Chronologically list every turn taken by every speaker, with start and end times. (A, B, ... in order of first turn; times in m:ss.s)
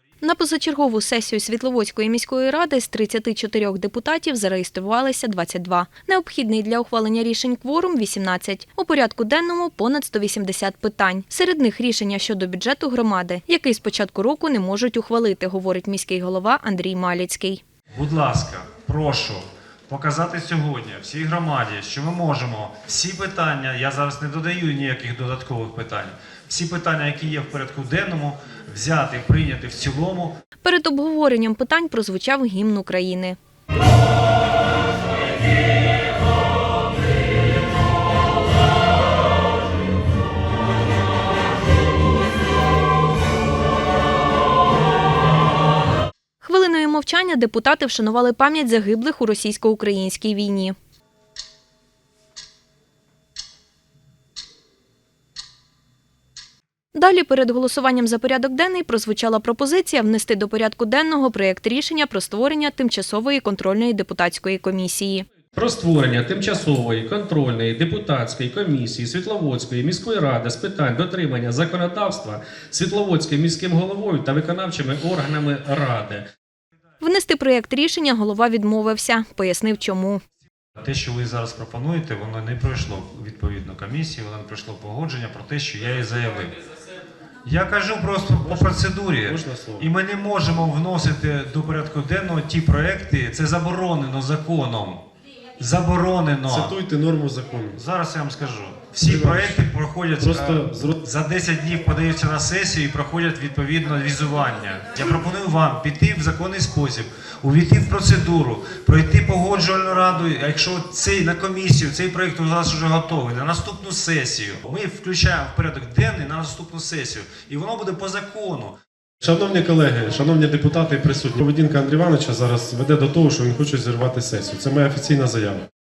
0:00.2-0:17.6 A
0:17.9-0:30.3 B
0:30.6-0:33.4 A
0:46.4-0:50.7 A
0:56.9-1:05.2 A
1:05.5-1:16.2 C
1:17.0-1:20.2 A
1:20.8-1:26.5 B
1:27.4-1:35.0 B
1:28.3-1:29.8 D
1:35.6-1:36.7 B
1:36.4-1:37.8 D
1:37.7-1:58.7 B
1:39.0-1:39.6 D
1:40.2-1:40.9 D
1:59.2-2:05.6 D